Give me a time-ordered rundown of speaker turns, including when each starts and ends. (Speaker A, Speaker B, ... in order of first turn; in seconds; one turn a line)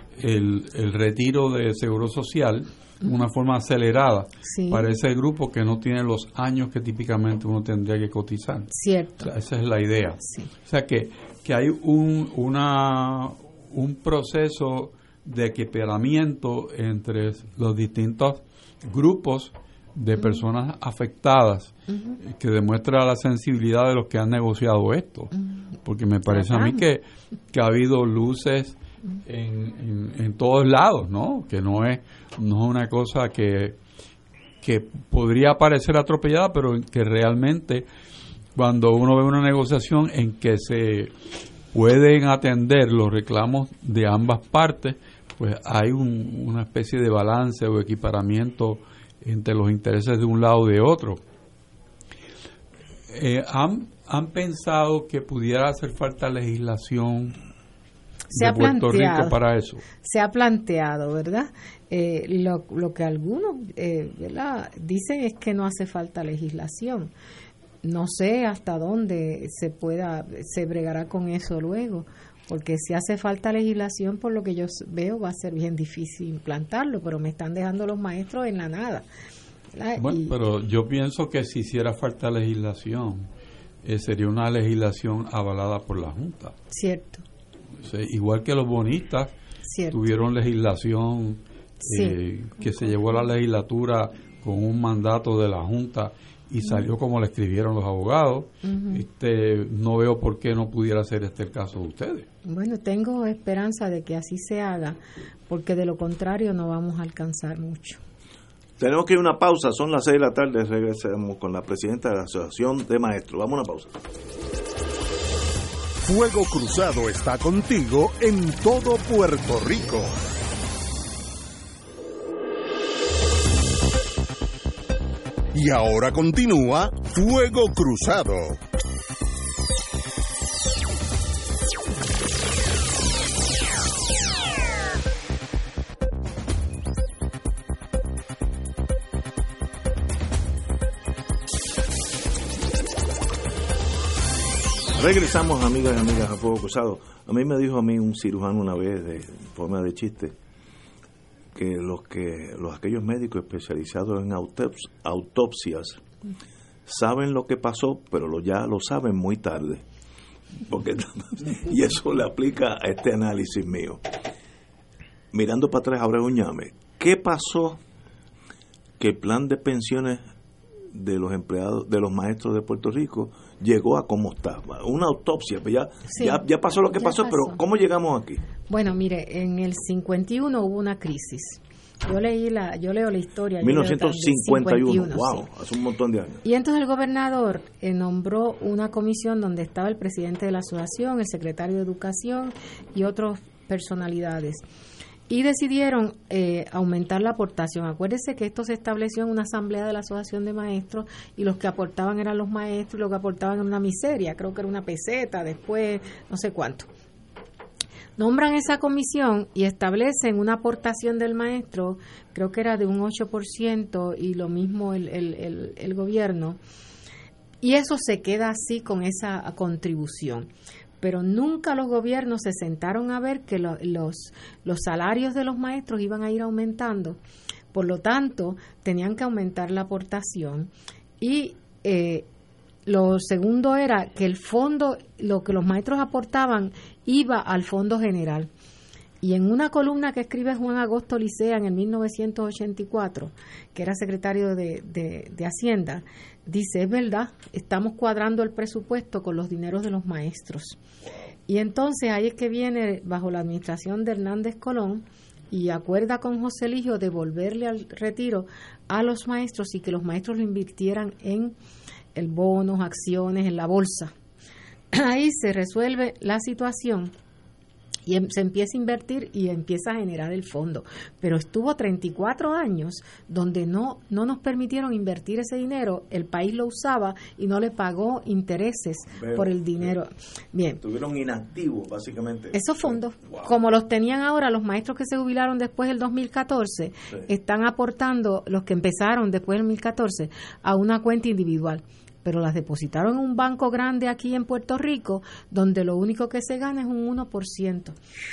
Speaker A: 0.2-33.8
Speaker B: 4.4-4.9
Speaker B: 8.7-9.3
Speaker B: 10.2-10.5
Speaker B: 26.3-26.8
Speaker A: 34.6-37.9
Speaker A: 38.5-41.1
Speaker A: 41.7-51.2
Speaker A: 53.1-57.4
Speaker B: 58.3-59.4
Speaker A: 58.3-59.8
Speaker B: 59.9-67.1
Speaker B: 67.8-79.0
Speaker B: 79.7-80.3
Speaker A: 80.0-83.3
Speaker A: 83.8-86.5
Speaker B: 86.7-87.2
Speaker A: 87.8-89.3
Speaker B: 89.7-90.0
Speaker A: 89.9-102.3
Speaker B: 91.8-92.2
Speaker B: 98.6-99.0
Speaker B: 102.5-105.0
Speaker B: 105.5-108.0
Speaker C: 108.8-114.0
Speaker D: 116.0-120.1
Speaker D: 125.5-128.6
Speaker C: 144.9-150.3
Speaker C: 151.5-156.0
Speaker C: 156.8-159.8
Speaker C: 160.7-164.0
Speaker C: 165.3-167.8
Speaker C: 169.0-170.2
Speaker C: 170.9-178.4
Speaker B: 176.1-177.6
Speaker B: 178.7-185.4
Speaker C: 183.6-186.4
Speaker B: 186.4-194.6
Speaker B: 195.3-206.9
Speaker B: 208.2-216.6
Speaker B: 217.6-220.5
Speaker B: 221.0-227.2
Speaker B: 227.7-232.3
Speaker B: 232.8-238.5
Speaker B: 239.2-250.8
Speaker B: 251.5-261.6
Speaker B: 262.1-264.1
Speaker B: 264.9-267.1
Speaker B: 268.1-280.8
Speaker C: 279.2-279.9
Speaker C: 280.8-283.5
Speaker B: 282.5-297.9